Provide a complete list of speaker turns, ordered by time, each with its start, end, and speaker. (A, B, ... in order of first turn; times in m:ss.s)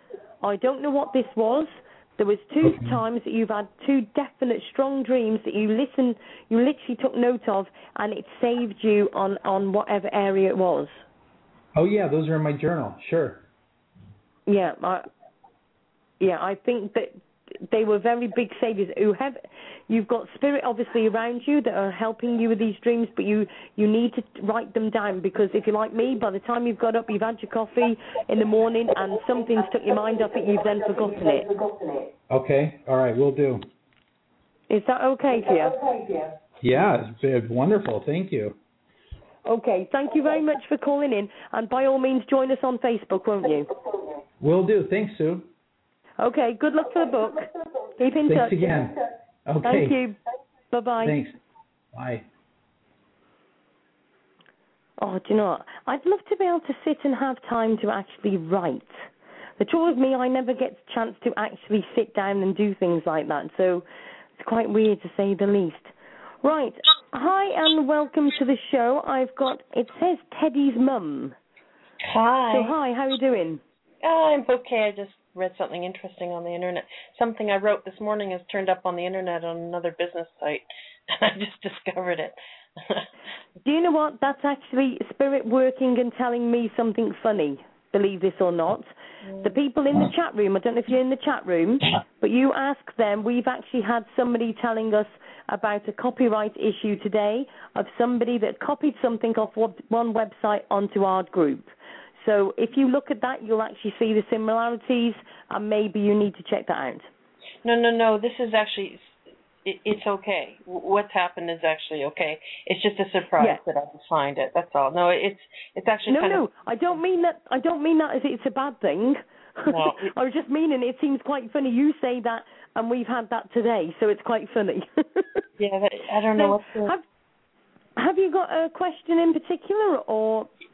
0:00.4-0:11.0 A
0:02.6-0:03.0 B
0:11.8-0:13.4 B
0:14.5-0:15.1 A
0:16.2-0:31.5 A
0:32.3-0:33.7 B
0:34.7-0:35.8 A
0:36.6-0:38.6 B
0:39.5-0:43.7 A
0:44.4-0:45.5 B
0:46.2-0:48.6 A
0:48.3-0:50.0 B
0:49.6-0:50.2 A
0:50.7-0:51.2 A
0:51.0-0:51.4 B
0:51.9-0:52.3 B
0:55.0-0:59.0 A
0:59.6-1:03.9 A
1:04.4-1:05.9 A
1:06.4-1:11.4 A
1:12.1-1:12.8 C
1:12.5-1:13.6 A
1:14.0-1:23.1 C
1:23.6-1:28.9 A
1:29.4-1:47.1 A
1:47.6-1:56.5 C
1:56.1-2:05.4 A
1:59.7-2:00.1 C
2:05.6-2:07.0 C
2:06.4-2:07.0 A
2:08.0-2:10.5 A